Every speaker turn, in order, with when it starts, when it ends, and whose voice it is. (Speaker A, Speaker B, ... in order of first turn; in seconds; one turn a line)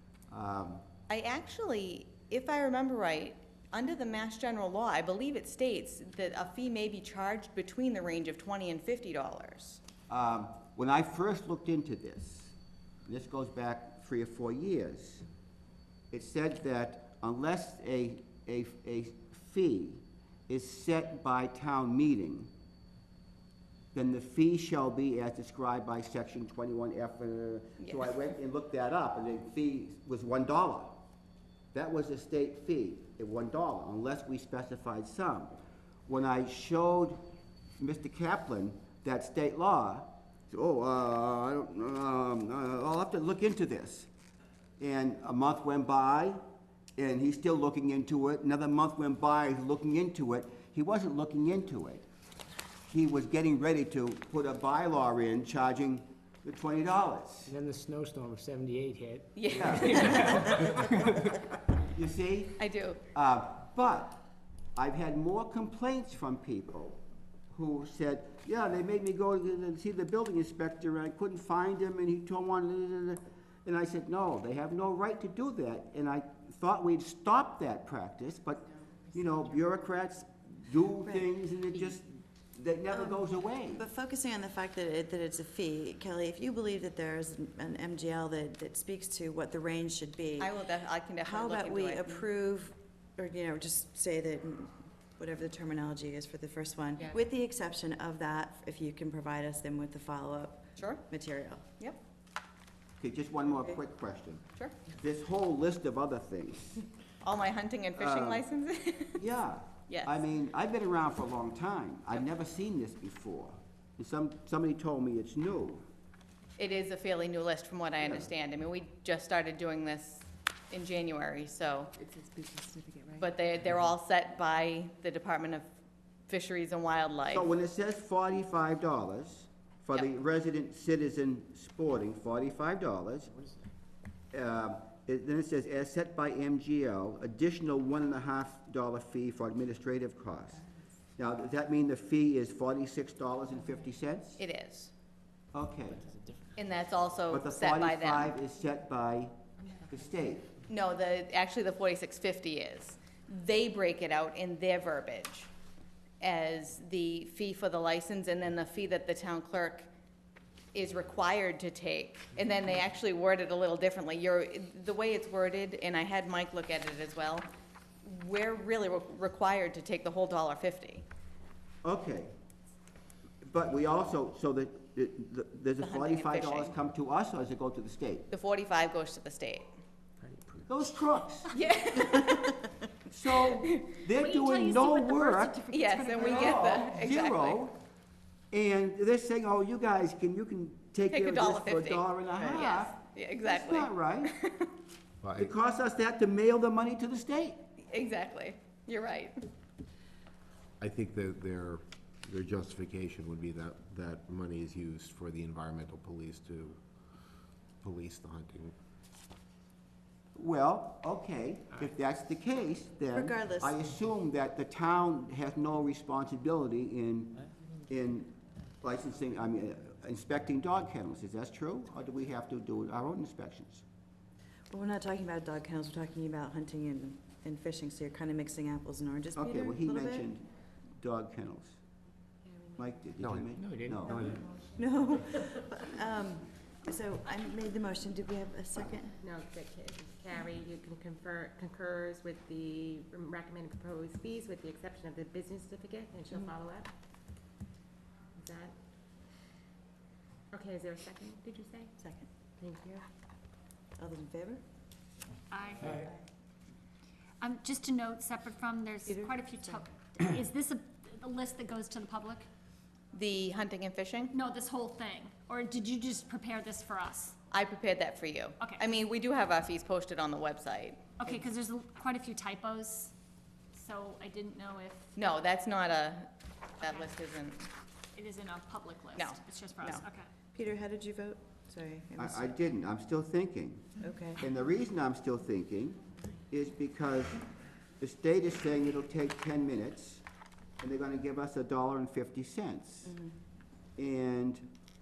Speaker A: 0.3-0.8
Speaker B: 1.1-9.8
Speaker A: 10.1-12.6
Speaker A: 13.1-15.3
Speaker A: 16.1-22.5
Speaker A: 23.9-31.0
Speaker A: 31.7-35.5
Speaker A: 36.1-37.2
Speaker A: 37.8-44.1
Speaker A: 44.8-46.4
Speaker A: 47.0-52.0
Speaker A: 52.9-57.5
Speaker C: 57.5-60.8
Speaker B: 59.4-60.6
Speaker A: 59.5-60.1
Speaker A: 61.9-62.6
Speaker B: 62.6-63.0
Speaker A: 63.1-64.2
Speaker A: 64.8-83.8
Speaker D: 82.9-90.6
Speaker B: 90.4-92.2
Speaker D: 91.2-101.6
Speaker B: 100.8-101.0
Speaker A: 103.0-106.8
Speaker B: 107.2-109.2
Speaker A: 108.0-108.4
Speaker A: 109.2-115.8
Speaker B: 109.9-110.1
Speaker B: 116.6-121.9
Speaker A: 118.0-118.3
Speaker B: 123.2-125.7
Speaker B: 126.3-127.5
Speaker A: 127.3-133.3
Speaker A: 134.3-140.6
Speaker A: 141.2-144.4
Speaker B: 144.4-144.9
Speaker A: 145.5-146.1
Speaker B: 146.6-148.3
Speaker A: 147.3-149.3
Speaker A: 149.9-150.5
Speaker B: 150.7-155.5
Speaker B: 156.2-159.9
Speaker B: 160.7-167.5
Speaker B: 168.0-171.1
Speaker A: 171.8-172.3
Speaker A: 173.4-178.3
Speaker B: 175.8-176.7
Speaker B: 178.3-179.7
Speaker C: 180.2-180.6
Speaker A: 180.7-181.6
Speaker B: 181.5-182.6
Speaker A: 183.1-187.8
Speaker B: 183.4-184.0
Speaker E: 184.2-186.2
Speaker B: 185.7-187.6
Speaker A: 188.5-194.3
Speaker B: 191.1-194.7
Speaker F: 195.2-195.5
Speaker A: 195.4-197.6
Speaker B: 197.9-199.4
Speaker F: 200.8-206.8
Speaker F: 207.8-208.8
Speaker A: 210.3-223.8
Speaker D: 213.1-213.8
Speaker D: 224.7-230.3
Speaker A: 229.3-231.8
Speaker A: 232.8-234.4
Speaker C: 233.4-234.4
Speaker D: 234.1-239.2
Speaker G: 239.9-240.7
Speaker G: 241.8-242.6
Speaker G: 243.1-246.4
Speaker D: 252.0-252.3
Speaker D: 254.0-254.6
Speaker E: 255.5-255.9
Speaker D: 255.8-256.1
Speaker E: 257.4-262.5
Speaker D: 259.1-259.4
Speaker B: 263.1-264.3
Speaker E: 264.4-267.4
Speaker B: 267.5-271.4
Speaker E: 271.2-273.1
Speaker E: 273.8-275.0
Speaker B: 275.2-276.3
Speaker B: 276.8-277.7
Speaker E: 278.2-280.3
Speaker B: 279.2-280.0
Speaker D: 280.5-282.6
Speaker A: 282.2-287.4
Speaker D: 284.0-284.4
Speaker A: 288.0-290.2
Speaker A: 290.8-293.2
Speaker D: 293.1-293.3
Speaker A: 294.0-294.7